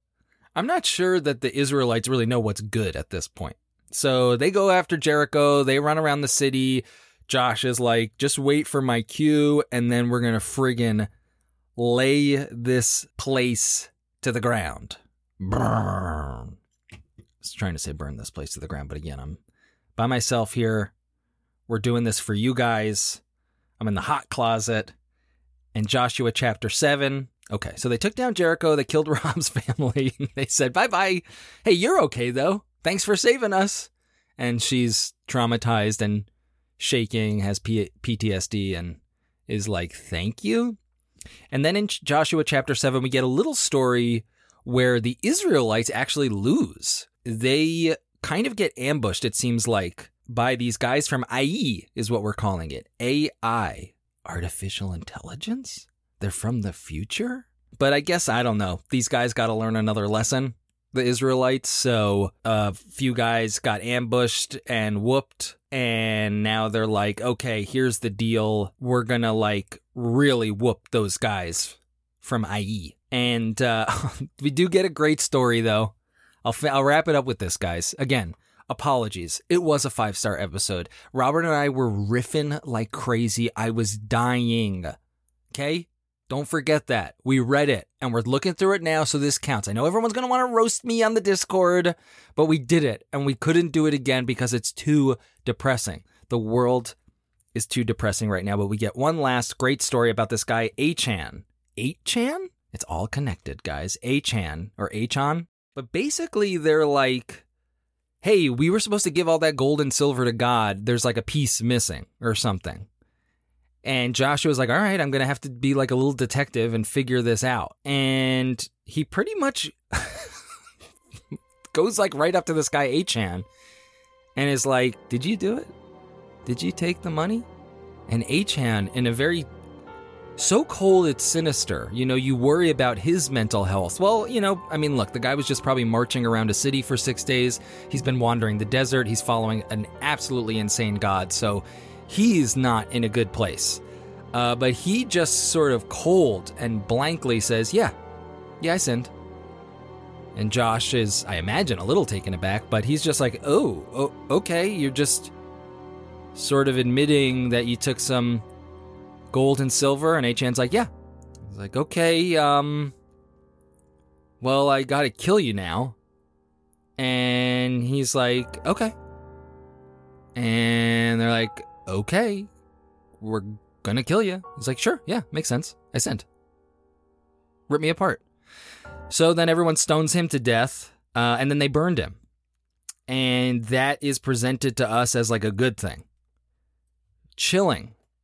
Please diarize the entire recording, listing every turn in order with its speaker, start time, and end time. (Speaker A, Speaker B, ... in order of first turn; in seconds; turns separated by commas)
Speaker A: 0.5-11.1, Speaker A: 11.8-16.6, Speaker A: 17.4-19.4, Speaker A: 19.9-20.9, Speaker A: 21.7-23.2, Speaker A: 23.8-24.9, Speaker A: 25.7-40.8, Speaker A: 41.5-85.0, Speaker A: 85.5-97.0, Speaker A: 97.5-107.4, Speaker A: 108.2-112.9, Speaker A: 113.8-120.4, Speaker A: 121.7-123.5, Speaker A: 124.3-125.7, Speaker A: 126.4-127.5, Speaker A: 128.1-129.4, Speaker A: 130.4-143.8, Speaker A: 144.3-147.9, Speaker A: 148.6-149.1, Speaker A: 150.3-155.3, Speaker A: 156.3-158.4, Speaker A: 159.3-160.9, Speaker A: 161.4-162.9, Speaker A: 164.4-165.9, Speaker A: 167.0-168.9, Speaker A: 170.3-172.5, Speaker A: 173.2-176.2, Speaker A: 177.7-178.2, Speaker A: 179.1-182.2, Speaker A: 183.1-186.1, Speaker A: 187.3-187.9